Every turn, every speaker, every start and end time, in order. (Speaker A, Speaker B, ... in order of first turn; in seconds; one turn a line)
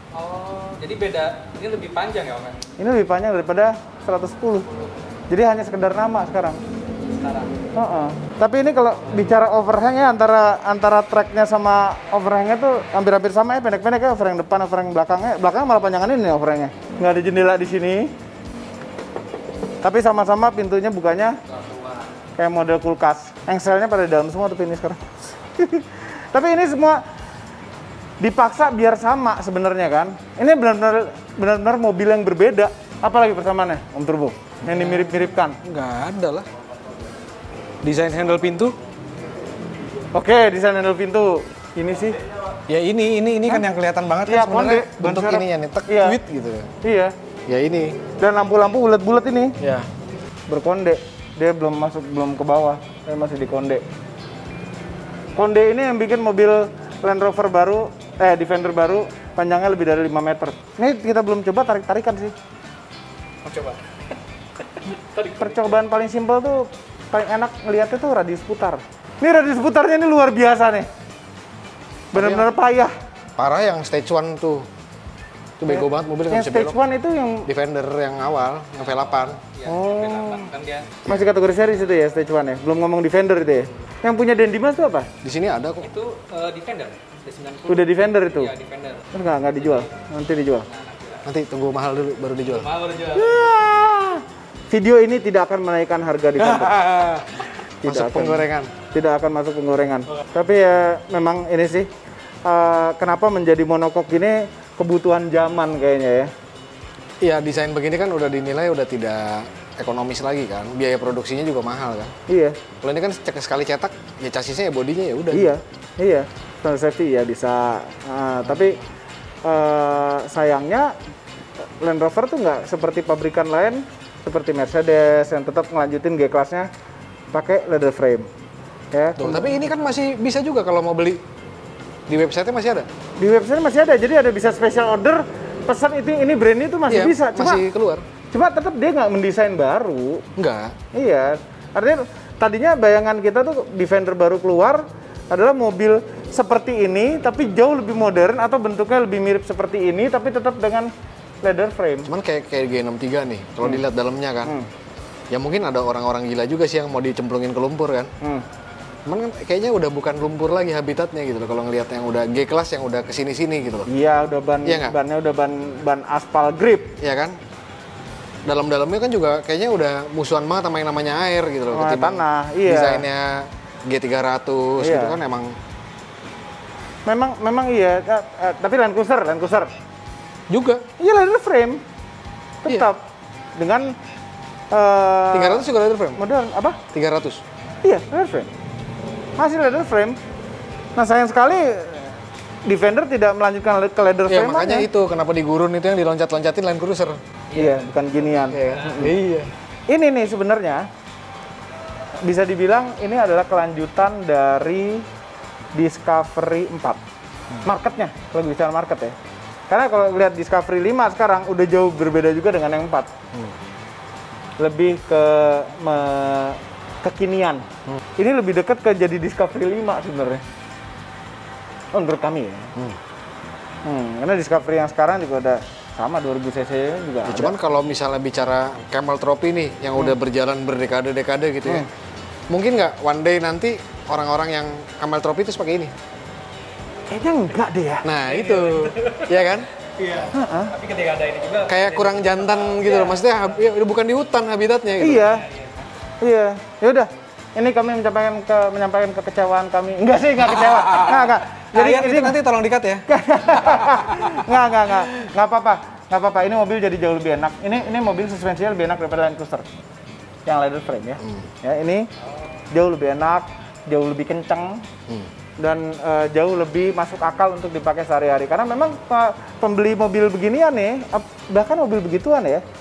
Speaker A: 0.1-2.6
Speaker B: 2.8-4.7
Speaker B: 5.3-6.6
Speaker A: 7.0-7.5
Speaker B: 7.8-18.1
Speaker B: 19.8-21.4
Speaker B: 22.4-25.0
Speaker B: 25.6-27.0
Speaker B: 28.2-35.6
Speaker C: 34.6-36.5
Speaker C: 37.8-38.8
Speaker B: 40.1-42.2
Speaker C: 42.7-46.7
Speaker B: 44.3-46.2
Speaker B: 46.8-47.1
Speaker C: 47.5-48.0
Speaker B: 48.2-49.5
Speaker C: 49.6-49.9
Speaker B: 50.5-53.8
Speaker B: 55.4-62.3
Speaker A: 63.4-63.8
Speaker A: 64.8-65.8
Speaker B: 65.4-70.9
Speaker C: 72.1-72.5
Speaker B: 72.1-72.9
Speaker C: 73.4-74.7
Speaker C: 75.6-76.8
Speaker B: 75.7-77.5
Speaker C: 77.5-79.4
Speaker A: 78.8-81.0
Speaker B: 79.7-80.5
Speaker B: 81.1-85.1
Speaker C: 85.2-85.9
Speaker A: 85.8-89.9
Speaker B: 87.7-88.5
Speaker B: 89.1-90.7
Speaker A: 90.7-91.2
Speaker C: 91.2-92.7
Speaker A: 92.5-93.5
Speaker B: 93.1-96.8
Speaker C: 96.4-98.7
Speaker B: 97.8-101.9
Speaker B: 102.5-106.3
Speaker C: 107.2-112.1
Speaker B: 112.3-112.6
Speaker C: 112.8-115.5
Speaker B: 115.3-118.8
Speaker B: 119.5-120.9
Speaker B: 121.8-126.7
Speaker B: 127.3-128.3
Speaker B: 128.9-129.6
Speaker C: 129.2-131.2
Speaker C: 132.1-132.9
Speaker B: 133.2-137.6
Speaker C: 136.9-138.1
Speaker B: 138.3-140.2
Speaker C: 140.4-140.8
Speaker B: 140.9-150.9
Speaker B: 151.4-152.1
Speaker C: 152.1-154.6
Speaker C: 155.3-158.1
Speaker C: 159.1-163.9
Speaker B: 163.9-167.0
Speaker C: 164.7-165.0
Speaker C: 167.0-167.4
Speaker C: 168.4-175.6
Speaker B: 171.7-173.1
Speaker B: 174.8-175.2
Speaker B: 177.1-179.7
Speaker C: 180.5-180.8
Speaker B: 181.0-181.8
Speaker B: 182.6-183.0
Speaker B: 183.6-183.9
Speaker B: 184.7-186.8
Speaker C: 185.3-186.2
Speaker C: 186.9-187.4
Speaker B: 187.8-188.5
Speaker B: 189.4-190.2
Speaker B: 191.0-192.1
Speaker B: 192.7-194.9
Speaker C: 194.3-197.2
Speaker A: 197.5-199.0
Speaker B: 197.5-199.1
Speaker C: 198.5-199.5
Speaker B: 199.9-200.9
Speaker B: 202.2-205.1
Speaker B: 205.8-207.0
Speaker B: 207.6-209.2
Speaker B: 209.7-213.1
Speaker B: 214.6-217.6
Speaker B: 218.2-220.4
Speaker B: 221.9-222.7
Speaker B: 223.8-227.5
Speaker C: 227.2-231.9
Speaker C: 232.5-235.9
Speaker B: 237.1-238.1
Speaker C: 238.0-239.7
Speaker A: 238.2-243.2
Speaker B: 240.3-240.7
Speaker C: 241.7-245.3
Speaker B: 245.0-245.4
Speaker A: 245.2-245.8
Speaker B: 246.2-252.4
Speaker C: 250.4-255.1
Speaker B: 253.1-259.7
Speaker B: 260.5-262.1
Speaker B: 262.7-264.8
Speaker B: 265.6-272.6